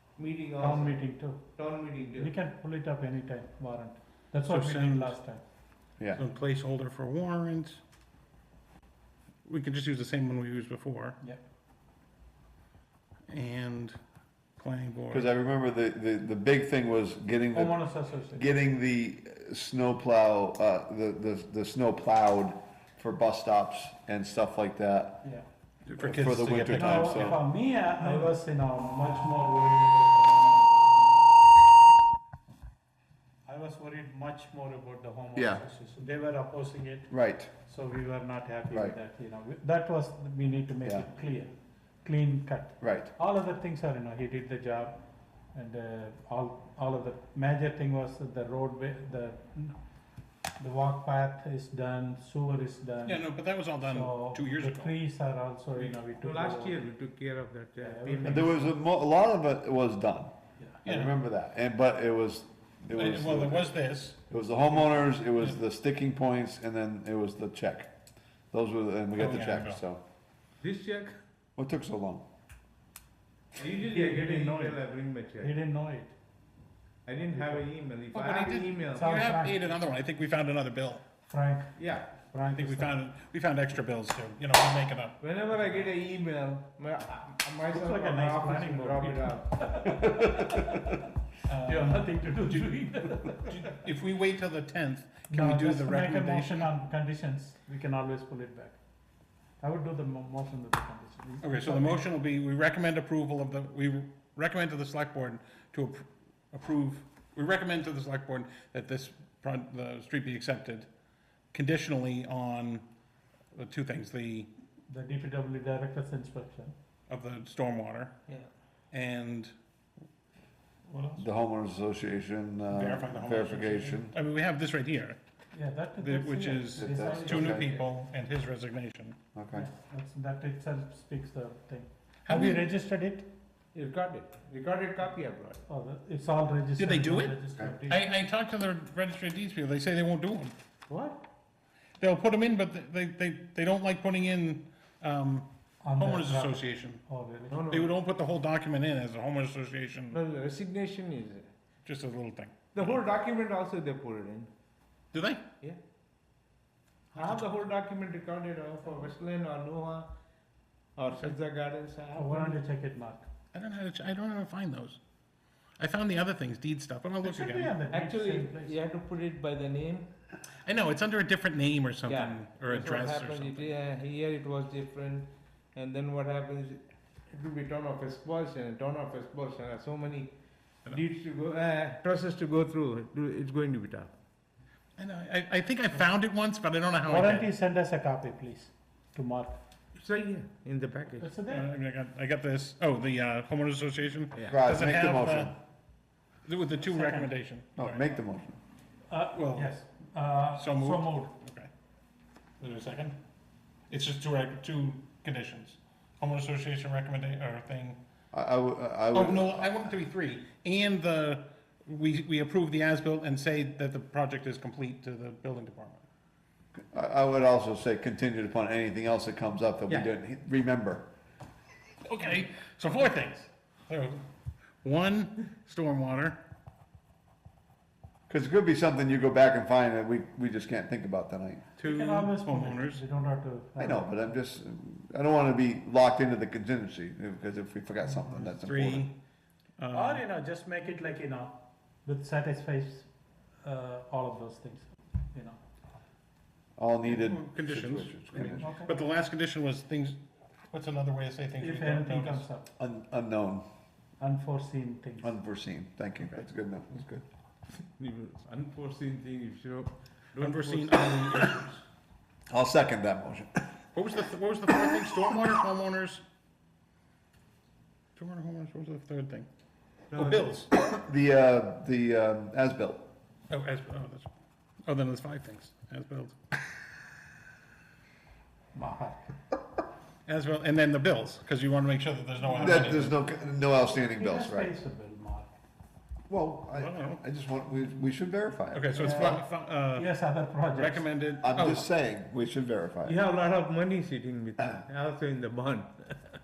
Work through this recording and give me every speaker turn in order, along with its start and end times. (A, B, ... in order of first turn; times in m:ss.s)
0:00.2-0:02.3 A
0:00.6-0:01.4 B
0:02.2-0:05.4 B
0:04.5-0:05.2 C
0:06.1-0:07.8 C
0:09.4-0:11.2 C
0:13.3-0:14.0 C
0:14.6-0:15.3 C
0:15.1-0:25.2 D
0:17.5-0:18.5 B
0:25.8-0:27.4 C
0:26.0-0:27.4 D
0:26.7-0:31.1 B
0:33.4-0:37.1 B
0:35.3-0:35.6 D
0:37.1-0:37.5 D
0:37.6-0:41.5 B
0:38.7-0:39.0 D
0:42.0-0:45.0 B
0:42.8-0:43.1 D
0:45.5-0:49.8 B
0:50.6-0:56.8 B
0:53.0-0:54.9 C
0:55.8-0:58.6 A
0:57.8-0:58.7 B
0:58.3-1:00.3 D
1:00.8-1:03.8 D
1:00.8-1:01.1 C
1:02.9-1:04.2 C
1:04.3-1:07.9 D
1:04.3-1:04.7 B
1:05.3-1:05.6 C
1:08.5-1:10.0 D
1:09.2-1:09.8 C
1:10.6-1:11.2 A
1:11.6-1:12.2 D
1:13.6-1:15.5 A
1:13.9-1:14.8 B
1:15.4-1:16.1 B
1:17.0-1:19.3 A
1:17.3-1:17.6 B
1:18.1-1:21.0 C
1:18.9-1:19.7 B
1:21.2-1:23.0 B
1:21.8-1:22.1 A
1:22.5-1:25.8 C
1:25.2-1:29.8 A
1:27.7-1:33.7 B
1:31.5-1:36.7 C
1:35.3-1:38.8 B
1:39.6-1:42.1 B
1:41.4-1:50.9 C
1:51.5-1:52.8 C
1:53.5-1:54.5 C
1:54.9-1:56.7 B
1:57.1-1:58.2 C
1:58.9-1:59.5 C
2:01.2-2:04.1 D
2:02.7-2:05.2 C
2:05.5-2:07.7 B
2:06.0-2:09.2 C
2:06.8-2:07.7 D
2:09.3-2:09.7 D
2:09.5-2:13.3 B
2:12.2-2:12.7 C
2:13.7-2:15.6 A
2:15.7-2:17.8 B
2:16.8-2:20.5 C
2:22.0-2:27.0 C
2:25.8-2:27.7 B
2:27.5-2:27.9 A
2:27.7-2:30.2 C
2:30.1-2:31.5 A
2:31.8-2:33.0 C
2:32.7-2:34.5 A
2:35.1-2:35.4 C
2:37.1-2:37.5 C
2:37.1-2:40.1 A
2:41.0-2:42.6 A
2:42.1-2:43.3 B
2:43.5-2:45.0 C
2:45.8-2:47.8 C
2:47.2-2:48.8 B
2:47.9-2:50.1 A
2:50.6-2:53.7 C
2:52.1-3:00.3 A
3:00.8-3:04.1 A
3:05.0-3:07.5 C
3:07.0-3:09.6 B
3:10.0-3:11.3 A
3:11.2-3:11.7 B
3:11.5-3:15.5 C
3:14.3-3:14.6 A
3:14.5-3:15.5 D
3:16.4-3:18.0 C
3:16.8-3:17.3 B
3:17.8-3:18.6 D
3:19.1-3:21.3 B
3:19.3-3:19.7 C
3:20.5-3:21.7 C
3:22.6-3:23.2 C
3:23.9-3:28.0 C
3:28.3-3:29.9 D
3:29.1-3:36.0 C
3:36.9-3:41.0 D
3:42.0-3:44.2 C
3:44.8-3:46.4 C
3:48.3-3:51.6 D
3:51.8-3:53.0 C
3:51.8-3:54.2 B
3:53.8-3:59.1 D
3:58.2-3:59.1 C
3:59.8-4:00.2 C
3:59.9-4:03.1 B
4:03.6-4:05.6 B
4:06.8-4:08.7 D
4:07.0-4:10.2 C
4:08.4-4:09.0 B
4:10.7-4:12.5 C
4:11.6-4:12.7 B
4:12.8-4:13.6 D
4:14.2-4:15.4 B
4:15.2-4:17.2 D
4:17.8-4:21.7 A
4:20.4-4:21.8 C
4:22.5-4:23.6 D
4:23.9-4:26.2 C
4:28.2-4:29.5 C
4:30.1-4:30.5 A
4:30.1-4:30.7 C
4:30.7-4:33.0 D
4:33.5-4:34.3 C
4:34.8-4:36.4 C
4:38.7-4:39.3 B
4:40.2-4:43.2 C
4:42.4-4:45.5 B
4:42.6-4:44.7 D
4:46.3-4:49.4 D
4:46.7-4:47.2 C
4:48.7-4:50.1 C
4:48.9-4:51.0 B
4:50.7-4:51.8 C
4:51.4-4:53.2 D
4:53.0-4:56.1 A